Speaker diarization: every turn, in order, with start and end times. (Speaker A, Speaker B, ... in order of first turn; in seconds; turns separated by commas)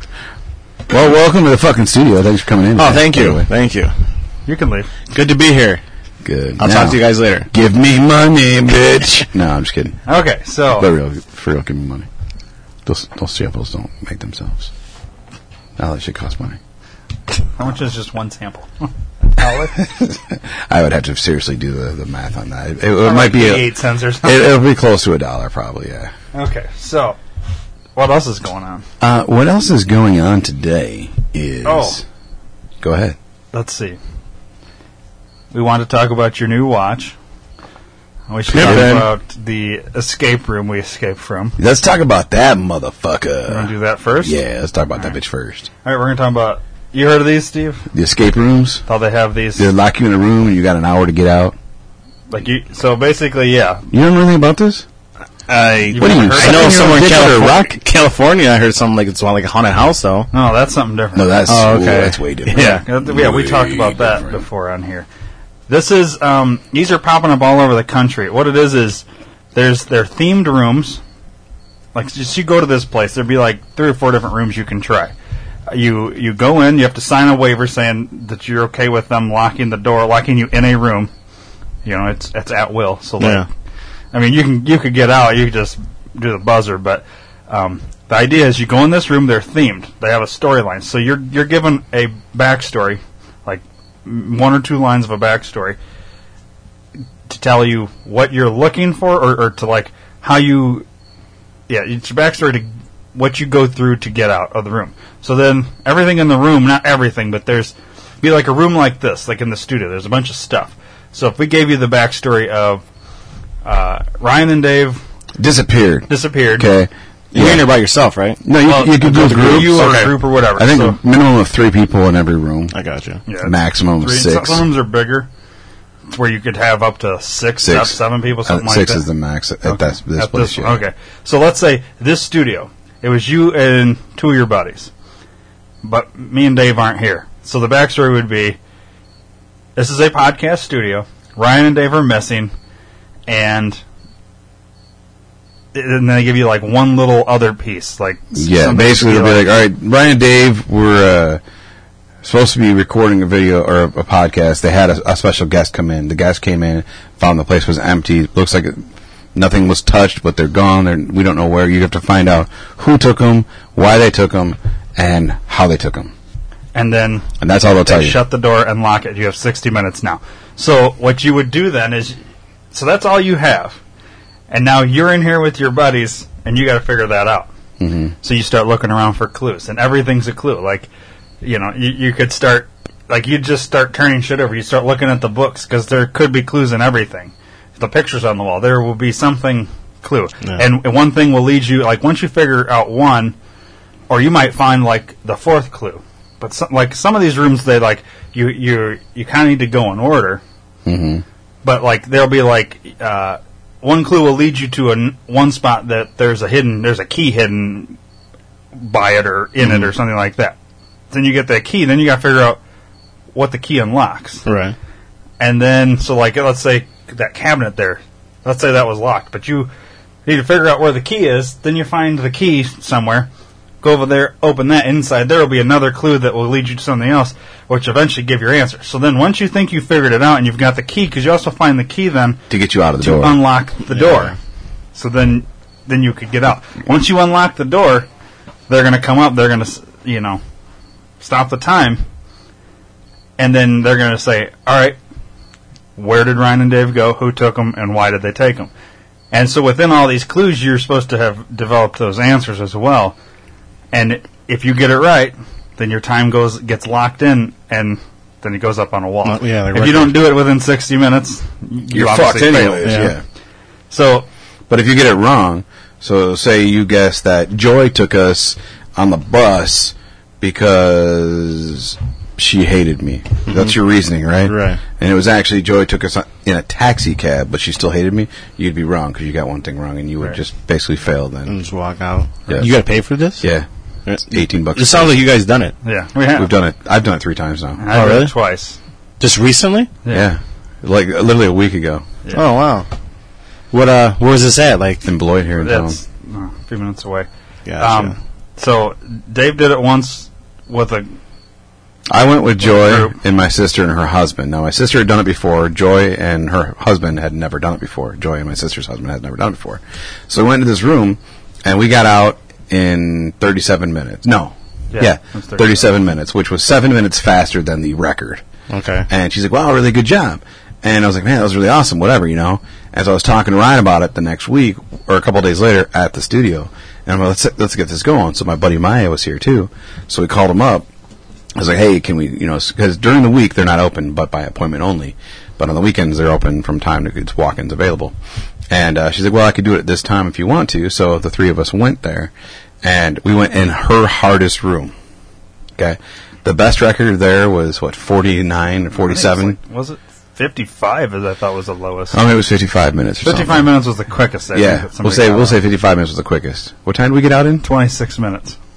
Speaker A: 0.9-3.5, Speaker B: 2.8-3.9, Speaker C: 4.5-4.9, Speaker B: 5.1-5.8, Speaker A: 6.2-10.0, Speaker B: 6.6-7.5, Speaker C: 10.1-10.9, Speaker A: 10.8-12.1, Speaker A: 12.8-14.7, Speaker A: 15.8-16.6, Speaker C: 17.6-19.8, Speaker A: 19.7-26.1, Speaker C: 23.0-24.5, Speaker C: 26.3-27.2, Speaker C: 27.9-28.9, Speaker A: 29.0-32.0, Speaker C: 31.6-32.0, Speaker A: 32.8-33.2, Speaker C: 33.5-34.0, Speaker C: 35.5-37.1, Speaker C: 38.3-41.6, Speaker B: 38.5-39.1, Speaker A: 38.5-39.0, Speaker A: 41.6-45.7, Speaker C: 43.5-44.4, Speaker C: 45.8-47.9, Speaker A: 47.9-48.8, Speaker C: 48.9-49.7, Speaker A: 49.6-51.5, Speaker C: 52.3-53.8, Speaker A: 53.9-54.9, Speaker B: 55.5-60.3, Speaker C: 55.9-57.1, Speaker A: 56.0-57.8, Speaker C: 60.3-61.4, Speaker A: 61.1-64.4, Speaker B: 61.5-62.8, Speaker C: 62.5-65.1, Speaker C: 65.7-71.0, Speaker C: 71.9-75.1, Speaker C: 75.7-81.1, Speaker C: 81.8-83.5, Speaker B: 83.2-83.5, Speaker C: 84.1-95.8, Speaker C: 97.3-100.8, Speaker C: 101.7-112.8, Speaker C: 113.6-115.0, Speaker A: 115.4-117.7, Speaker C: 116.1-116.7, Speaker B: 117.3-118.4, Speaker A: 118.4-122.7, Speaker C: 118.6-121.0, Speaker B: 119.0-120.1, Speaker B: 122.7-123.2, Speaker C: 123.3-125.3, Speaker A: 123.4-124.7, Speaker C: 126.1-129.0, Speaker A: 127.6-130.8, Speaker C: 129.6-134.9, Speaker C: 135.8-138.6, Speaker C: 139.8-142.5, Speaker C: 143.3-143.8, Speaker C: 145.7-149.4, Speaker A: 148.3-151.4, Speaker A: 152.2-166.1, Speaker C: 166.7-167.3, Speaker A: 167.4-168.2, Speaker C: 167.8-172.2, Speaker C: 172.7-173.8, Speaker C: 174.5-177.5, Speaker A: 177.8-178.1, Speaker C: 178.2-180.9, Speaker C: 181.4-193.3, Speaker C: 194.1-200.4, Speaker A: 200.8-201.2, Speaker C: 201.6-208.0, Speaker C: 208.8-210.6, Speaker B: 209.6-209.9, Speaker C: 211.1-212.6, Speaker C: 213.3-214.4, Speaker B: 214.4-214.7, Speaker C: 215.4-219.7, Speaker C: 220.2-223.3, Speaker C: 223.8-232.4, Speaker A: 232.5-233.4, Speaker C: 233.0-234.3, Speaker B: 233.9-234.3, Speaker C: 234.9-238.1, Speaker C: 238.7-240.4, Speaker C: 241.2-242.0, Speaker C: 243.4-245.0, Speaker C: 245.9-248.7, Speaker C: 249.3-253.2, Speaker C: 253.9-263.1, Speaker B: 259.2-260.3, Speaker A: 261.9-263.2, Speaker B: 262.8-263.1, Speaker C: 263.9-264.3, Speaker A: 264.7-281.6, Speaker B: 273.5-273.7, Speaker B: 274.4-274.8, Speaker B: 281.5-283.5, Speaker A: 283.4-283.7, Speaker B: 284.1-285.8, Speaker A: 284.3-285.2, Speaker C: 285.8-286.5, Speaker A: 286.3-287.8, Speaker C: 287.8-288.8, Speaker B: 287.9-288.3, Speaker B: 289.2-289.9, Speaker A: 290.1-292.1, Speaker B: 292.3-292.9, Speaker B: 293.7-295.0, Speaker A: 295.0-296.0, Speaker C: 295.6-297.3, Speaker B: 297.6-298.1, Speaker C: 297.8-301.1, Speaker A: 302.1-318.4, Speaker C: 302.6-303.1, Speaker C: 314.9-315.9, Speaker B: 318.7-319.1, Speaker A: 319.1-330.9, Speaker A: 331.6-338.1, Speaker A: 338.7-344.9, Speaker A: 345.8-349.6, Speaker C: 348.9-352.2, Speaker A: 352.1-353.7, Speaker C: 353.2-355.6, Speaker A: 354.5-357.6, Speaker C: 357.6-358.6